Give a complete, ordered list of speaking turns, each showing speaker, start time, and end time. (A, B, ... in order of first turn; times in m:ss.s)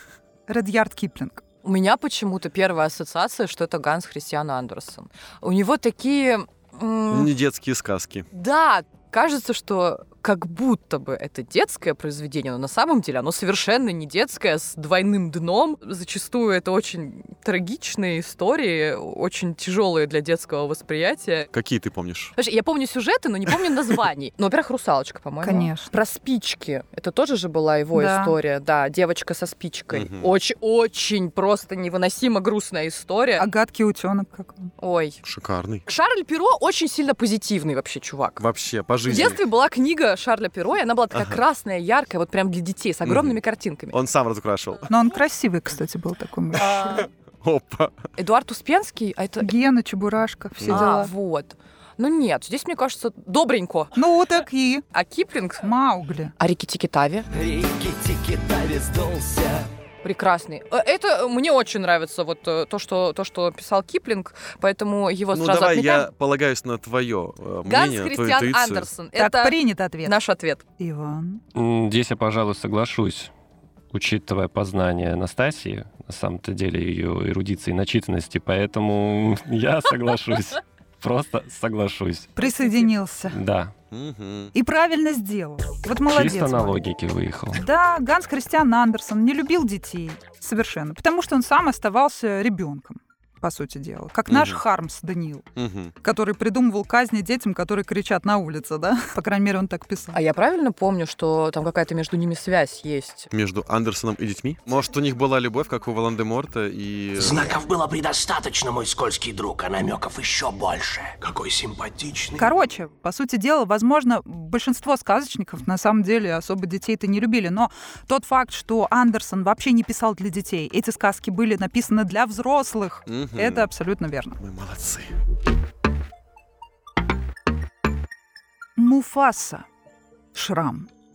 0:00.5-0:01.4 A
0:01.6-0:07.3 B
0:07.1-0:08.3 C
0:08.3-0:21.5 B
0:21.5-0:22.4 C
0:22.4-0:33.4 B
0:25.4-0:26.0 A
0:27.9-0:28.4 A
0:29.9-0:30.3 C
0:33.4-0:34.7 A
0:34.8-0:35.2 B
0:35.2-0:35.8 C
0:35.9-0:38.4 B
0:38.4-0:39.4 C
0:39.0-0:44.0 B
0:41.1-0:41.4 C
0:43.0-0:43.4 C
0:43.9-0:44.9 C
0:44.9-0:47.0 A
0:46.9-0:48.0 C
0:48.2-0:49.5 B
0:49.4-0:51.1 A
0:50.6-0:50.9 C
0:50.7-0:54.0 B
0:54.0-0:54.8 A
0:54.9-0:55.7 B
0:55.6-0:56.3 A
0:56.4-0:57.3 B
0:57.7-0:59.5 D
1:00.0-1:06.1 B
1:05.3-1:08.9 C
1:07.6-1:10.6 B
1:09.2-1:10.2 A
1:10.8-1:11.4 A
1:11.6-1:13.3 E
1:13.9-1:22.3 E
1:22.4-1:23.4 A
1:23.3-1:23.7 E
1:23.9-1:24.5 C
1:24.5-1:26.8 A
1:26.1-1:27.6 E
1:27.6-1:35.5 A
1:34.3-1:34.6 C
1:35.6-1:35.9 C
1:36.0-1:40.2 A
1:40.1-1:43.3 B
1:43.3-1:47.5 C
1:47.2-1:52.5 D
1:52.4-2:04.4 A
2:03.1-2:03.7 C
2:04.4-2:05.1 C
2:08.8-2:09.7 A
2:10.3-2:10.9 A